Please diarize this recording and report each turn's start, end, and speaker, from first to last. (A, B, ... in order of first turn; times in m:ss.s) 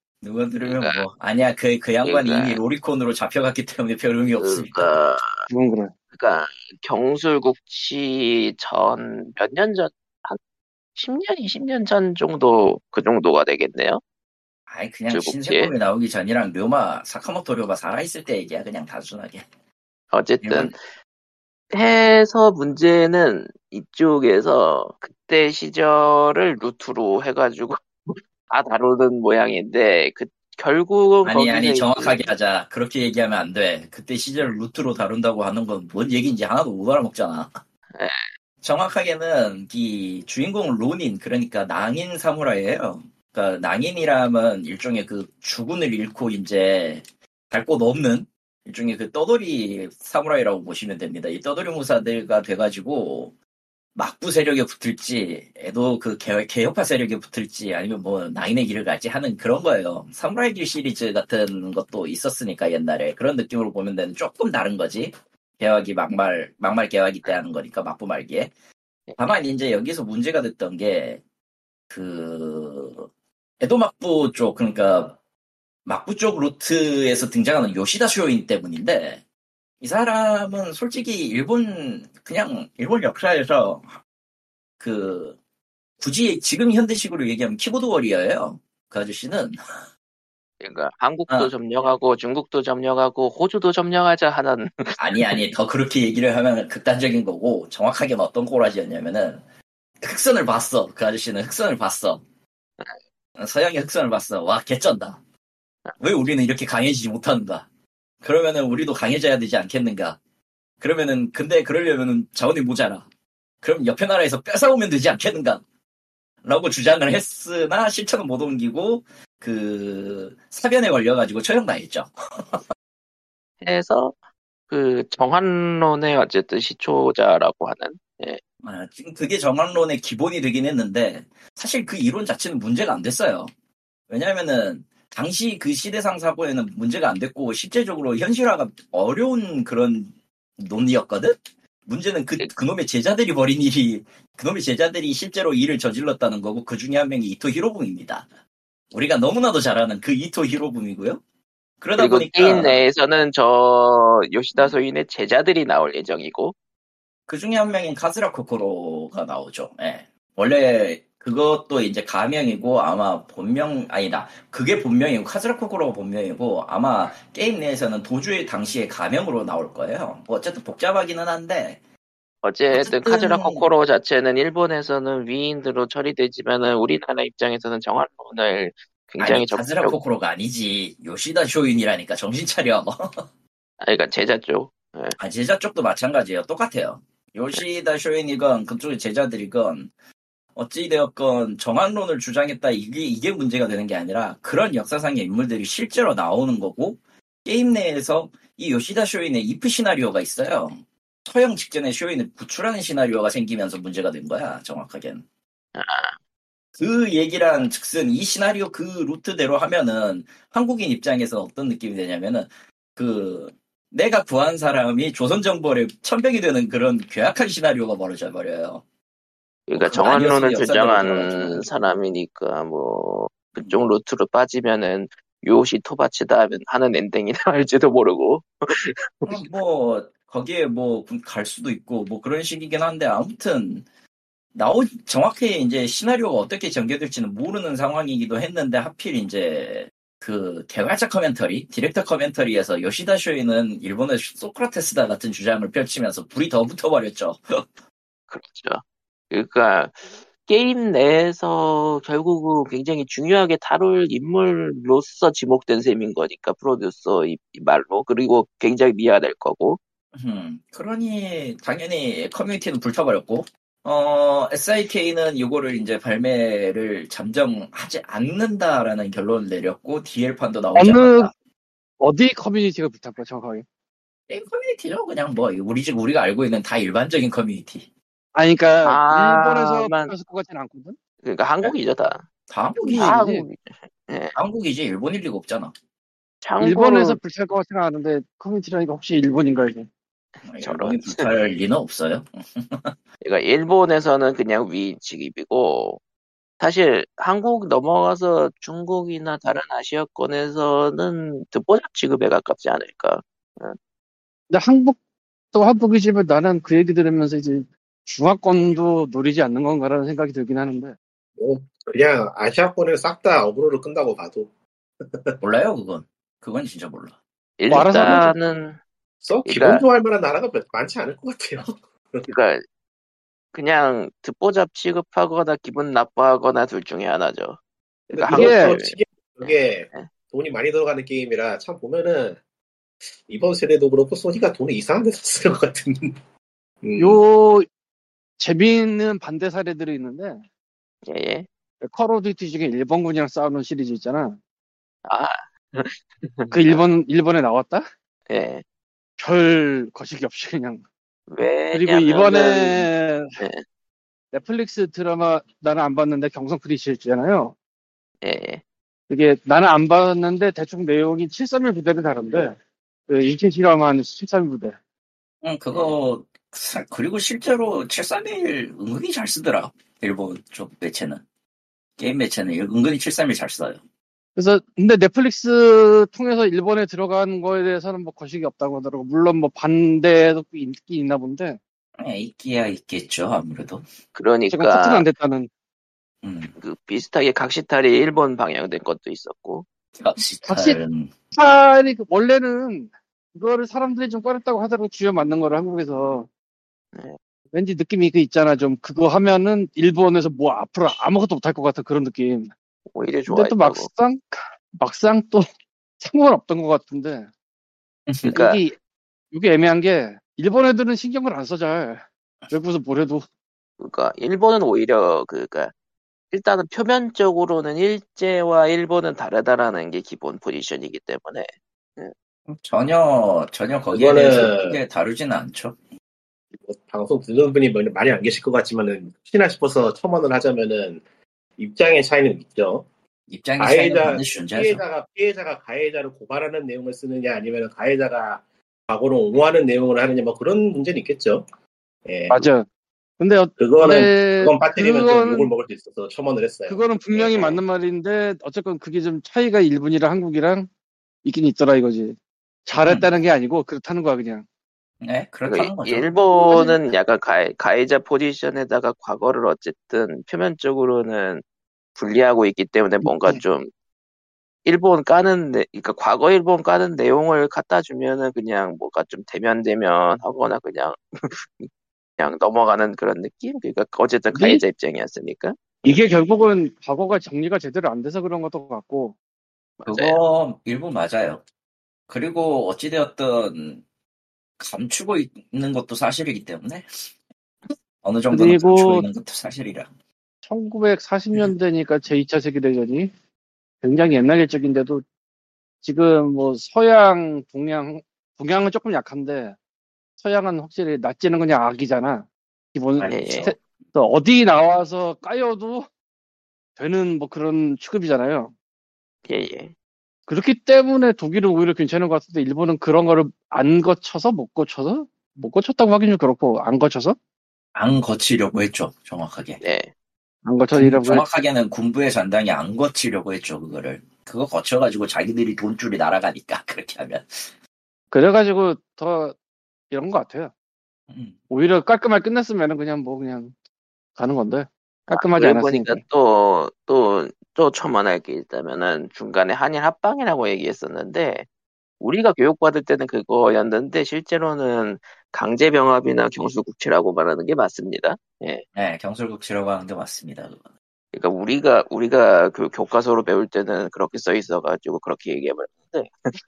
0:00.2-0:04.9 A
0:00.6-0:01.0 B
0:02.0-0:02.6 B
0:04.4-0:05.2 B
0:05.5-0:05.9 C
0:06.1-0:10.4 B
0:11.0-0:14.0 B
0:14.7-0:19.4 A
0:15.1-0:15.7 B
0:20.1-0:20.8 B
0:20.4-0:20.7 A
0:21.7-0:32.2 B
0:31.2-0:37.5 A
0:37.9-0:38.2 B
0:38.6-0:53.3 A
0:53.9-1:08.5 A
1:09.2-1:11.2 A
1:11.9-1:13.1 A
1:13.6-1:15.2 A
1:15.8-1:19.2 A
1:19.8-1:24.0 A
1:24.8-1:25.4 A
1:26.0-1:29.6 A
1:30.6-1:35.0 B
1:35.0-1:39.4 A
1:40.0-1:42.2 A
1:43.4-1:45.2 A
1:46.0-1:47.7 A
1:48.2-1:50.2 A
1:50.8-1:53.0 A
1:53.6-1:55.6 A
1:56.4-2:02.6 A
2:03.6-2:04.2 B
2:04.7-2:08.4 B
2:08.6-2:13.5 A
2:14.1-2:28.3 A
2:28.9-2:31.2 A
2:31.8-2:32.8 A
2:32.0-2:36.5 B
2:37.3-2:51.8 A
2:52.4-3:00.0 B
2:52.7-2:53.7 A
2:59.2-3:03.2 A
3:03.8-3:05.2 B
3:05.2-3:09.9 A
3:10.6-3:25.2 A
3:25.7-3:26.2 B
3:26.8-3:38.8 A
3:39.7-3:49.3 B
3:39.8-3:41.7 A
3:49.3-3:53.8 A
3:54.5-4:07.6 A
4:08.3-4:19.8 B
4:20.1-4:31.3 A
4:30.8-4:31.3 C
4:32.0-4:33.6 C
4:34.3-4:37.9 A
4:38.3-4:41.0 C
4:38.8-4:40.1 B
4:41.2-4:42.2 B
4:42.5-4:43.2 A
4:42.8-4:43.4 C
4:42.9-4:44.4 B
4:44.3-4:45.7 A
4:46.4-4:47.2 B
4:46.6-4:49.9 C
4:50.4-4:52.9 A
4:50.6-4:51.3 B
4:53.2-4:56.0 B
4:56.6-5:03.8 B
5:04.5-5:05.0 C
5:05.5-5:10.9 C
5:11.4-5:14.5 D
5:15.1-5:15.4 D
5:15.4-5:17.1 A
5:17.6-5:18.8 B
5:17.7-5:18.3 C
5:19.2-5:22.3 D
5:19.4-5:19.8 B
5:22.2-5:22.6 B
5:23.5-5:27.6 B
5:28.1-5:30.1 B
5:28.1-5:32.4 D
5:28.3-5:28.8 C
5:33.2-5:36.2 D
5:36.8-5:37.2 D
5:37.0-5:37.6 C
5:38.4-5:40.4 C
5:41.1-5:41.5 B
5:41.8-5:44.4 C
5:45.0-5:46.8 B
5:46.5-5:47.8 C
5:48.3-5:48.6 B
5:49.2-5:50.8 C
5:51.3-5:53.6 B
5:51.7-5:53.3 C
5:54.3-5:57.5 C
5:58.2-5:58.6 B
5:59.1-6:02.5 C
6:03.1-6:04.8 C
6:05.4-6:11.2 A
6:12.0-6:13.8 A
6:14.4-6:21.6 C
6:22.0-6:23.8 A
6:24.1-6:25.1 B
6:24.5-6:25.5 C
6:26.2-6:26.5 A
6:26.6-6:29.6 B
6:30.0-6:31.1 A
6:30.5-6:30.8 C
6:31.3-6:36.3 C
6:37.5-6:42.5 C
6:42.9-6:43.9 B
6:43.3-6:45.4 C
6:46.0-6:47.3 C
6:48.1-6:48.4 A
6:48.3-6:48.8 C
6:48.3-6:48.6 B
6:49.3-6:53.2 C
6:53.8-6:55.7 B
6:56.3-7:02.1 B
7:02.5-7:05.8 A
7:03.9-7:04.8 D
7:06.6-7:11.0 D
7:11.6-7:12.9 D
7:13.3-7:14.8 A
7:13.6-7:21.4 D
7:22.0-7:22.4 D
7:22.3-7:22.6 C
7:23.2-7:25.5 C
7:23.6-7:26.8 D
7:26.7-7:30.7 C
7:27.1-7:27.6 B
7:31.2-7:34.4 C
7:32.8-7:33.1 A
7:35.0-7:36.1 A
7:35.5-7:41.4 B
7:36.5-7:36.8 C
7:41.9-7:43.7 B
7:43.1-7:43.4 C
7:44.6-7:56.0 B
7:54.3-7:54.6 C
7:55.8-7:59.2 C
7:59.8-8:00.2 B
7:59.8-8:01.4 A
8:02.1-8:03.8 A
8:04.6-8:06.9 A
8:08.0-8:09.9 A
8:08.3-8:09.0 C
8:10.4-8:13.1 C
8:13.8-8:15.0 C
8:15.8-8:19.6 C
8:20.2-8:25.9 C
8:23.0-8:23.5 A
8:23.1-8:23.5 B
8:26.8-8:28.5 C
8:29.3-8:29.7 B
8:30.3-8:37.2 C
8:37.7-8:39.6 A
8:39.6-8:39.9 B
8:40.4-8:41.2 C
8:40.7-8:47.4 A
8:48.1-8:49.4 C
8:49.9-8:50.5 C
8:51.1-8:51.4 A
8:51.5-8:53.5 C
8:54.2-8:56.0 C
8:55.1-9:01.4 B
9:02.0-9:08.6 B
9:08.7-9:10.6 A
9:11.1-9:16.1 B